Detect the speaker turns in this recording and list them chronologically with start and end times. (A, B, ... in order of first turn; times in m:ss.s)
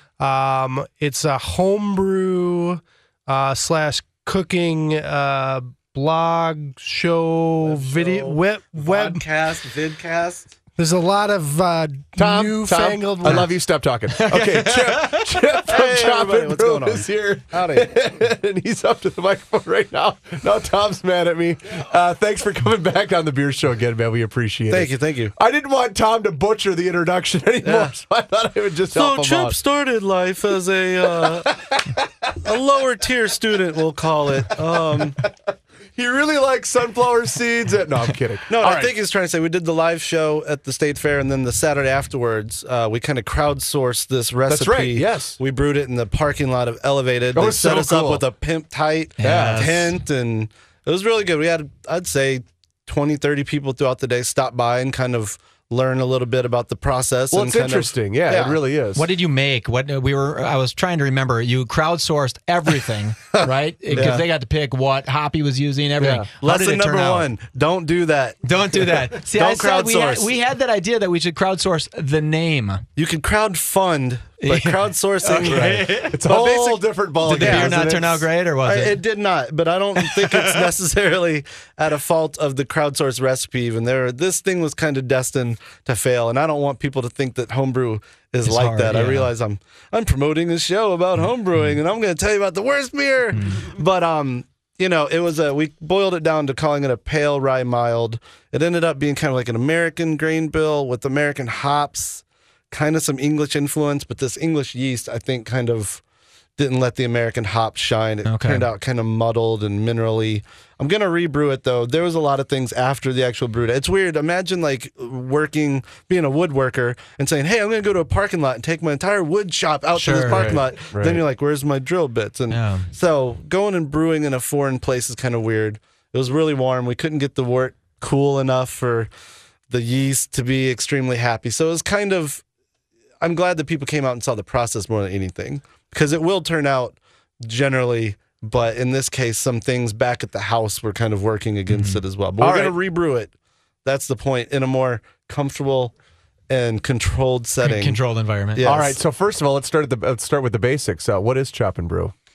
0:00.2-0:09.3 A
0:07.6-0:10.5 B
0:10.8-0:13.6 A
0:12.2-0:29.6 C
0:14.1-0:15.4 D
0:15.7-0:17.9 B
0:24.7-0:25.3 B
0:27.6-0:27.9 B
0:28.9-0:31.5 B
0:31.0-0:32.0 C
0:32.4-0:35.2 B
0:34.9-0:35.3 C
0:35.9-0:38.9 C
0:38.5-0:58.6 B
0:44.5-0:45.4 C
0:47.3-0:48.2 C
0:49.2-0:49.9 D
0:49.2-0:49.7 C
0:57.3-0:59.0 C
0:58.9-1:07.3 D
1:03.4-1:04.2 B
1:03.9-1:04.2 C
1:06.0-1:06.2 C
1:06.4-1:08.4 B
1:08.4-1:12.8 D
1:09.3-1:10.3 B
1:13.0-1:17.8 B
1:14.4-1:16.2 D
1:15.4-1:18.2 C
1:17.2-1:19.0 D
1:18.6-1:46.0 B
1:20.0-1:20.4 D
1:28.4-1:29.3 D
1:31.2-1:31.8 D
1:33.4-1:33.6 D
1:46.6-2:09.1 B
1:48.2-1:48.7 D
1:59.9-2:00.6 D
2:00.3-2:01.2 C
2:02.5-2:02.9 D
2:09.7-2:12.4 B
2:13.2-2:23.3 B
2:21.7-2:22.0 D
2:22.4-2:22.8 C
2:23.8-2:25.9 B
2:26.5-2:28.0 B
2:27.6-2:28.6 D
2:28.5-2:29.0 B
2:28.6-2:32.1 C